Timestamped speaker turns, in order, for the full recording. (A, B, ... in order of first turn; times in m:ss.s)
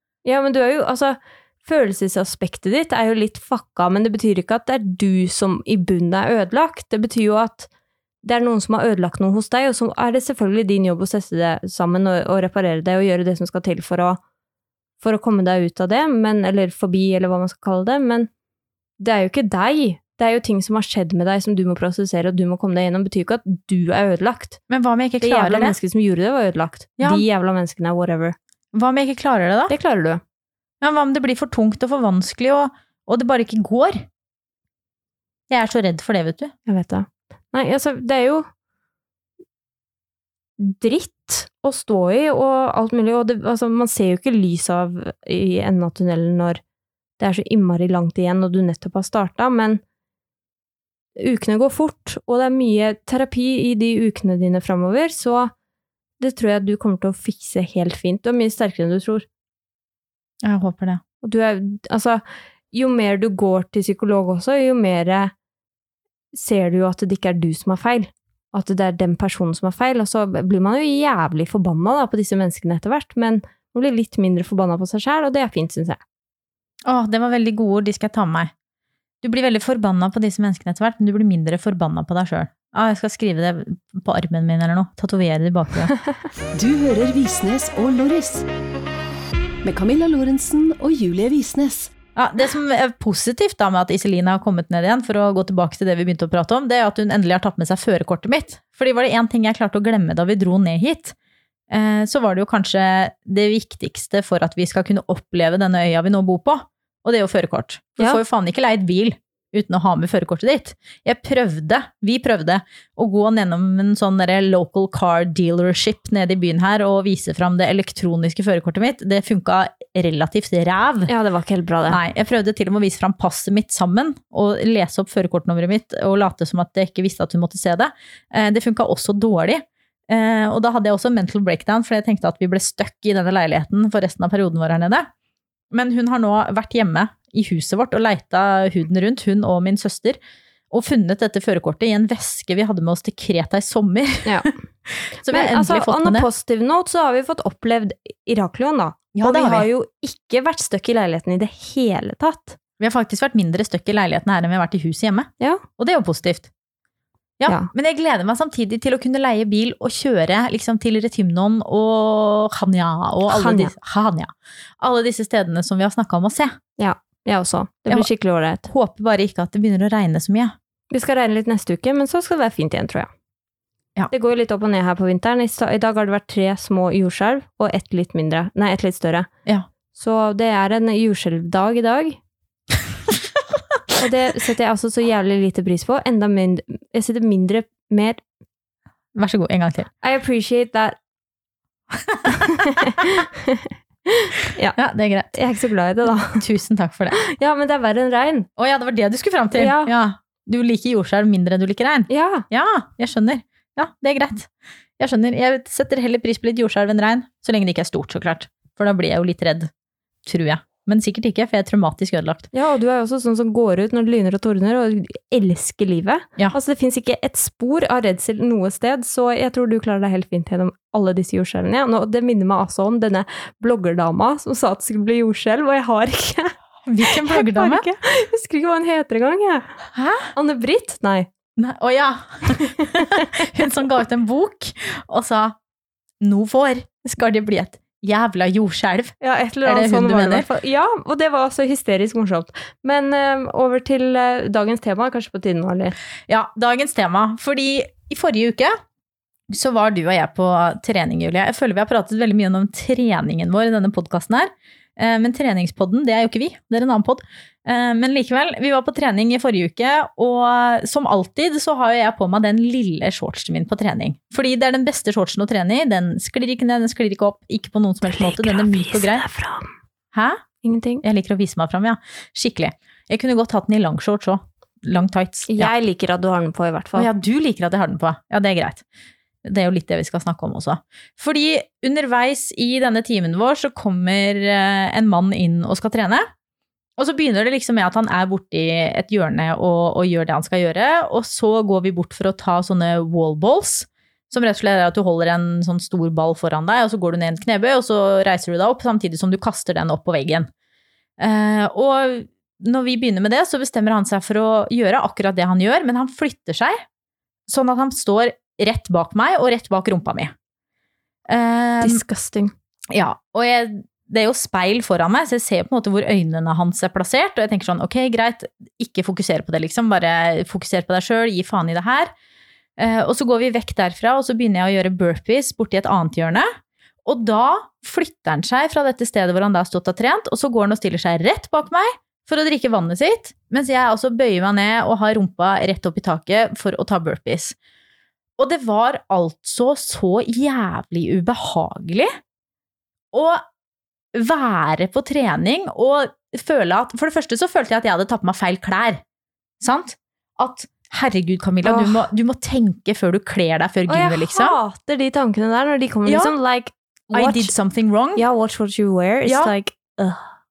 0:00.2-0:07.7 A
0:08.2-0:14.2 A
0:15.0-0:18.3 A
0:19.0-0:24.6 A
0:24.7-0:25.8 B
0:25.2-0:28.4 A
0:27.0-0:27.2 B
0:28.7-0:29.7 B
0:29.7-0:30.2 A
0:30.8-0:34.0 B
0:35.5-0:36.5 B
0:36.6-0:38.4 A
0:40.6-0:46.6 A
0:47.2-0:49.8 A
0:51.2-0:55.5 A
0:56.2-0:59.2 A
1:00.4-1:01.0 B
1:01.2-1:05.3 A
1:06.3-1:16.0 A
1:16.8-1:18.5 B
1:19.2-1:25.9 B
1:26.5-1:28.5 C
1:29.6-1:31.9 C
1:32.1-1:41.1 B
1:41.7-2:01.1 B
2:01.1-2:02.0 A
2:01.9-2:15.1 B
2:15.7-2:20.2 B
2:20.7-2:26.3 B
2:24.2-2:24.5 A
2:25.3-2:32.6 A
2:29.1-2:29.7 B
2:32.8-2:36.5 B
2:37.4-2:46.6 B
2:43.3-2:43.7 A
2:46.8-2:48.7 A
2:48.6-2:50.5 B
2:50.9-2:53.1 A
2:54.1-2:59.3 A
2:59.9-3:02.2 A
3:04.0-3:08.2 A
3:09.1-3:09.9 B
3:10.0-3:11.0 A
3:12.2-3:14.8 A
3:14.7-3:15.3 B
3:15.3-3:16.4 A
3:16.2-3:17.2 B
3:17.2-3:18.5 A
3:18.6-3:29.7 B
3:19.6-3:19.9 A
3:22.1-3:22.4 A
3:30.2-3:32.5 B
3:32.5-3:49.8 A
3:46.8-3:47.8 B
3:49.9-3:50.3 B
3:50.3-3:51.3 A
3:51.6-3:55.6 B
3:52.5-3:53.3 A
3:56.2-4:00.5 B
3:59.2-4:06.0 A
4:06.3-4:08.8 B
4:09.5-4:29.2 B
4:28.1-4:29.7 A
4:30.1-4:30.4 B
4:30.6-4:31.0 A
4:31.0-4:35.7 B
4:35.5-4:37.1 A
4:37.0-4:38.8 B
4:39.4-4:46.3 B
4:47.0-5:00.5 B
5:01.2-5:06.8 B
5:07.5-5:10.3 B
5:11.3-5:12.0 B
5:11.8-5:12.5 A
5:12.9-5:22.1 B
5:22.8-5:26.5 B
5:27.0-5:37.6 B
5:38.4-5:42.1 B
5:43.1-5:43.4 B
5:44.1-5:49.0 B
5:49.6-5:54.6 B
5:51.6-5:52.0 A
5:53.9-5:57.5 A
5:56.0-5:56.3 B
5:57.1-5:58.2 B
5:58.2-6:00.3 A
5:59.2-5:59.5 B